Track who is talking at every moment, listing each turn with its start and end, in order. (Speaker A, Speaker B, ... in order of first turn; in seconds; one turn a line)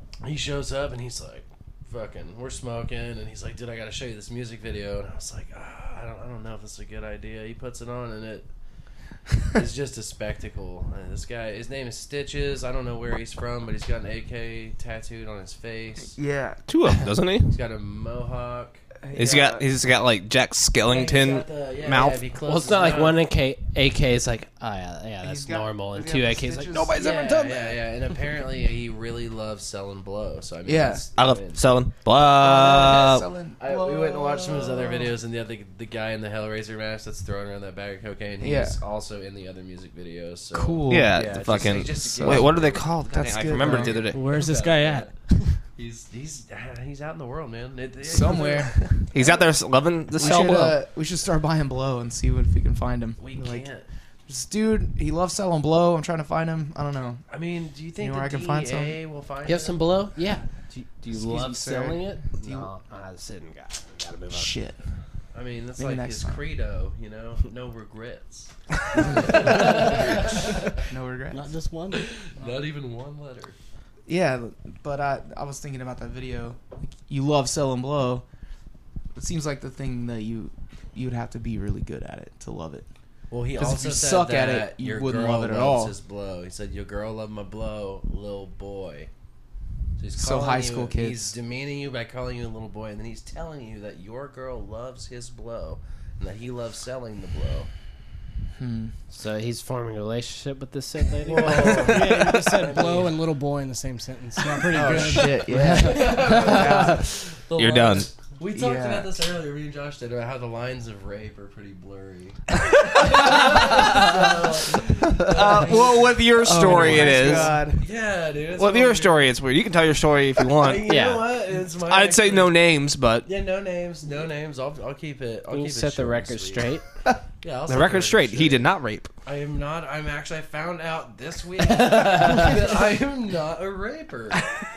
Speaker A: 0.2-8.5
Speaker A: 9.5-16.2
Speaker B: 16.1-16.6
Speaker C: 16.7-17.5
Speaker A: 17.5-19.4
Speaker B: 19.0-19.7
Speaker C: 19.1-22.2
Speaker A: 20.9-23.2
Speaker D: 22.4-26.9
Speaker B: 25.2-27.6
Speaker C: 26.7-27.6
Speaker A: 26.9-31.6
Speaker B: 30.6-31.0
Speaker C: 31.1-33.3
Speaker B: 32.2-35.1
Speaker A: 33.6-42.9
Speaker B: 38.4-38.8
Speaker B: 40.5-44.0
Speaker C: 40.9-44.2
Speaker D: 43.5-44.0
Speaker E: 44.0-45.6
Speaker A: 44.2-45.1
Speaker A: 45.8-48.7
Speaker B: 48.1-49.4
Speaker C: 49.1-50.8
Speaker B: 50.1-53.7
Speaker A: 53.2-53.9
Speaker B: 54.3-57.2
Speaker A: 57.3-59.9
Speaker B: 58.0-59.0
Speaker D: 59.5-64.6
Speaker B: 61.1-62.7
Speaker B: 64.3-64.8
Speaker A: 65.3-70.7
Speaker B: 65.8-66.4
Speaker B: 69.1-71.5
Speaker E: 71.3-72.2
Speaker A: 71.9-73.6
Speaker B: 74.1-78.2
Speaker B: 79.2-82.9
Speaker A: 83.3-89.1
Speaker B: 83.6-86.0
Speaker A: 90.0-97.7
Speaker B: 90.2-91.3
Speaker B: 98.6-98.9
Speaker D: 99.1-101.9
Speaker A: 101.2-103.1
Speaker E: 101.6-106.1
Speaker C: 101.7-102.2
Speaker B: 104.7-107.1
Speaker A: 104.7-119.3
Speaker C: 107.6-108.1
Speaker B: 108.5-109.2
Speaker C: 113.2-114.2
Speaker B: 115.1-117.8
Speaker C: 115.1-117.6
Speaker C: 118.6-120.9
Speaker A: 120.6-122.6
Speaker D: 120.9-121.3
Speaker C: 121.8-123.3
Speaker A: 123.2-126.7
Speaker D: 125.5-126.8
Speaker A: 127.4-128.7
Speaker C: 127.7-129.1
Speaker A: 129.2-134.4
Speaker D: 131.8-132.6